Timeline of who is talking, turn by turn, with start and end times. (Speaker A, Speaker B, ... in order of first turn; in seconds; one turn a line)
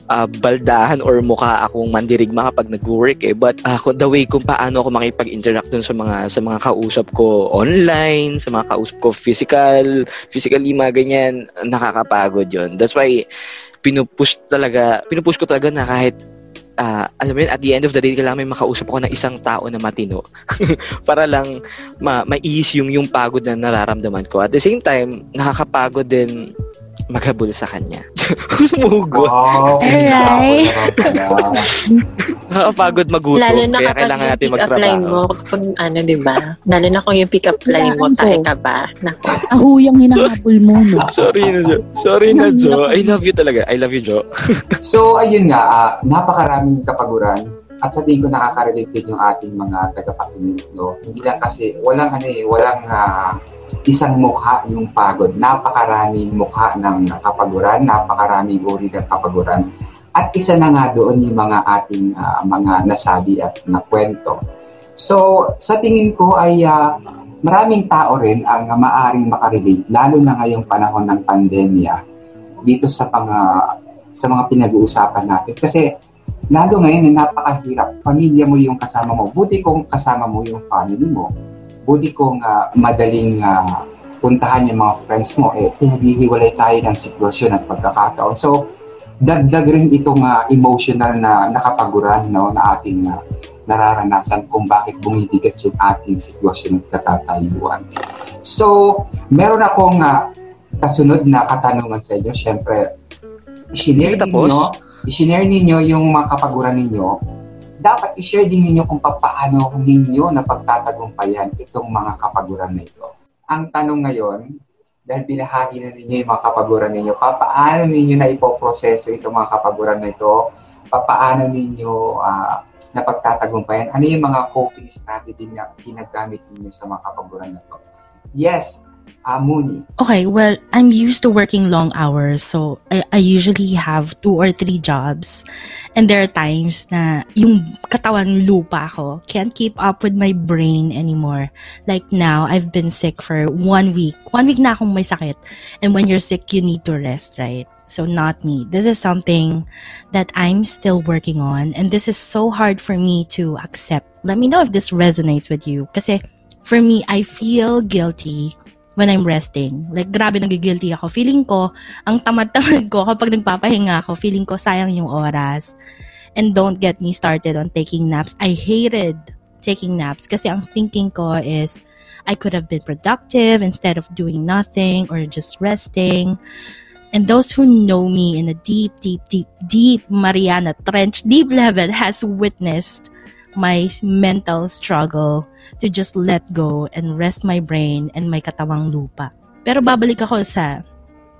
Speaker A: 0.1-13.2
Speaker A: 13.8-16.1
Speaker A: 16.8-21.5
Speaker A: 22.0-26.3
Speaker A: 27.1-30.2
Speaker B: 29.1-31.7
Speaker C: 29.8-31.3
Speaker A: 32.5-35.2
Speaker D: 33.4-39.5
Speaker E: 37.6-38.5
Speaker E: 39.5-41.1
Speaker A: 41.0-44.6
Speaker B: 41.1-41.8
Speaker E: 42.3-43.2
Speaker B: 44.9-53.3
Speaker B: 53.9-59.6
Speaker B: 60.2-64.4
Speaker B: 65.0-66.8
Speaker B: 67.4-72.0
Speaker B: 72.7-73.4
Speaker B: 74.2-75.8
Speaker B: 76.5-81.3
Speaker B: 81.9-83.6
Speaker B: 84.2-88.5
Speaker B: 89.3-93.2
Speaker B: 93.7-97.8
Speaker B: 98.5-98.7
Speaker B: 99.3-100.2
Speaker B: 100.8-102.8
Speaker B: 103.8-107.1
Speaker A: 104.0-104.7
Speaker B: 107.8-114.4
Speaker B: 115.1-120.3
Speaker B: 120.9-127.8
Speaker B: 128.4-129.8
Speaker C: 130.0-135.4
Speaker C: 136.0-165.8
Speaker C: 166.4-176.4
Speaker C: 177.1-190.8